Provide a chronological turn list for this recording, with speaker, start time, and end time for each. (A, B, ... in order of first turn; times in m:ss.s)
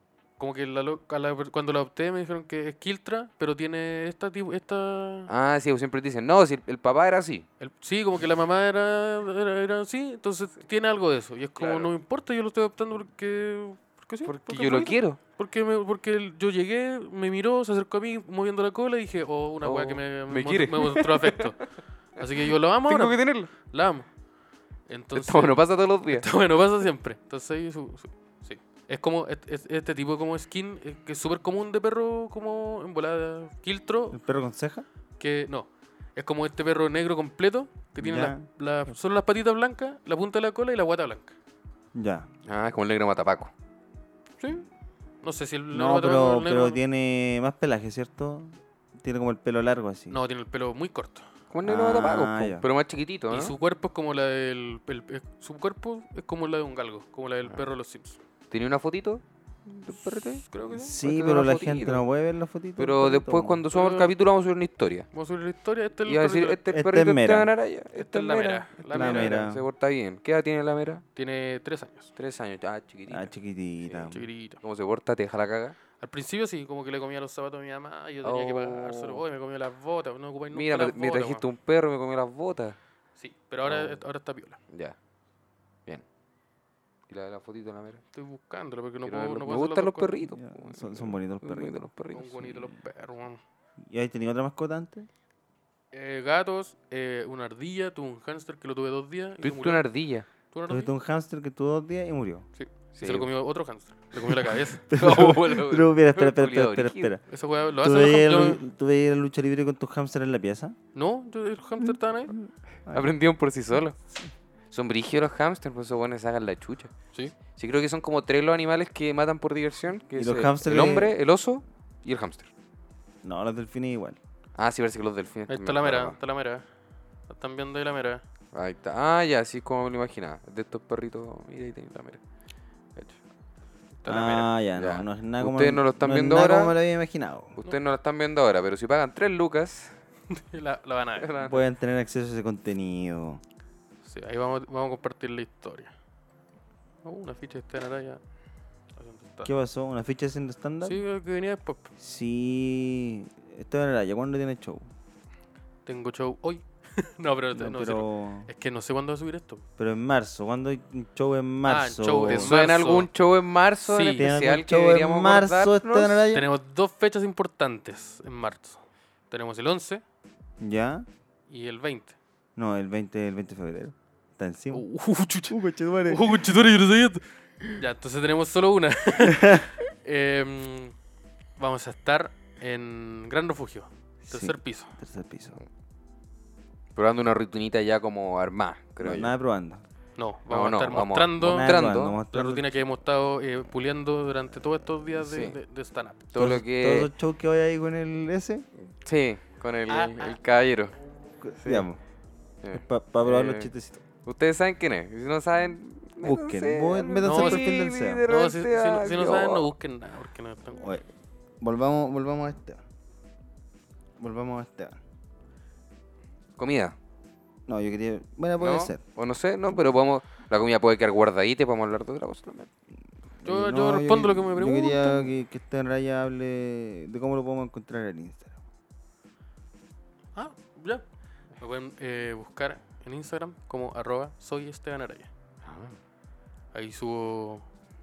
0:00.4-0:05.3 A
0:05.3-0:07.5 B
0:07.6-0:21.6 A
0:11.6-0:11.9 B
0:14.2-0:15.2 B
0:19.6-0:21.7 B
0:22.2-0:24.1 A
0:22.9-0:23.5 B
0:24.9-0:34.2 A
0:25.1-0:26.3 B
0:34.1-0:34.9 C
0:35.2-0:41.3 A
0:38.0-0:38.4 C
0:41.9-0:42.3 C
0:42.5-0:43.5 B
0:44.4-0:44.7 A
0:45.2-0:46.8 A
0:45.7-0:50.2 C
0:50.1-0:51.3 A
0:51.5-0:53.6 B
0:51.6-0:52.7 C
0:53.3-0:58.2 A
0:58.5-1:00.4 B
0:59.9-1:01.0 A
1:00.7-1:03.6 C
1:01.0-1:02.1 B
1:02.8-1:05.1 B
1:03.7-1:04.1 A
1:05.1-1:06.6 A
1:06.1-1:11.0 B
1:06.7-1:07.5 C
1:08.0-1:09.5 A
1:08.9-1:09.7 C
1:11.2-1:12.1 A
1:12.2-1:13.3 B
1:13.1-1:14.2 C
1:13.9-1:14.6 A
1:14.6-1:15.8 B
1:16.0-1:21.4 A
1:18.2-1:19.2 B
1:20.5-1:22.8 B
1:23.2-1:24.6 A
1:23.7-1:24.0 B
1:24.7-1:25.0 B
1:27.1-1:28.0 B
1:28.1-1:30.1 A
1:29.0-1:32.5 B
1:30.3-1:31.8 C
1:32.1-1:33.4 A
1:33.9-1:35.1 C
1:35.9-1:39.9 A
1:39.4-1:40.3 B
1:40.5-1:40.9 A
1:40.7-1:42.5 C
1:42.6-1:44.8 A
1:42.9-1:43.3 B
1:44.3-1:47.2 B
1:44.9-1:47.2 C
1:47.3-1:48.6 A
1:47.8-1:50.8 C
1:51.0-1:52.3 A
1:52.3-1:53.1 C
1:52.9-1:54.0 B
1:54.7-2:02.5 B
2:00.2-2:01.2 C
2:03.2-2:04.2 C
2:04.6-2:06.2 B
2:05.5-2:06.7 A
2:07.3-2:08.2 A
2:08.5-2:12.2 B
2:14.0-2:14.5 A
2:14.1-2:17.6 C
2:14.8-2:16.8 B
2:17.6-2:20.0 B
2:20.3-2:21.4 A
2:21.2-2:21.6 B
2:21.4-2:23.4 C
2:24.0-2:25.9 A
2:27.0-2:28.2 A
2:29.0-2:29.5 A
2:29.4-2:31.0 C
2:30.8-2:31.9 A
2:32.0-2:34.9 C
2:35.9-2:39.6 A
2:37.5-2:38.5 C
2:39.8-2:42.5 C
2:41.6-2:43.1 A
2:42.3-2:46.3 B
2:43.8-2:44.3 A
2:44.2-2:46.5 C
2:46.3-2:50.0 A
2:50.6-2:51.1 C
2:51.5-2:52.2 A
2:52.6-2:54.9 C
2:54.7-3:01.0 A
2:55.5-2:56.3 C
3:01.6-3:05.0 A
3:04.2-3:05.6 C
3:07.0-3:09.4 B
3:09.0-3:09.8 C
3:10.2-3:11.7 A
3:10.5-3:12.2 B
3:11.4-3:12.8 C
3:12.3-3:16.2 A
3:15.2-3:15.6 B
3:16.3-3:17.1 B
3:16.4-3:18.6 C
3:18.9-3:21.0 B
3:19.9-3:20.3 A
3:21.4-3:22.0 C
3:21.6-3:21.9 B
3:22.6-3:29.7 B
3:22.7-3:24.0 C
3:26.2-3:28.2 C
3:27.2-3:27.7 A
3:28.2-3:30.9 A
3:30.8-3:31.0 C
3:31.6-3:32.8 C
3:34.2-3:35.0 C
3:36.6-3:37.0 B
3:37.7-3:39.0 C
3:38.6-3:42.7 B
3:43.4-3:48.6 C
3:43.4-3:45.3 A
3:50.4-3:51.0 A
3:51.6-3:55.3 A
3:55.6-3:56.0 B
3:56.7-3:57.7 A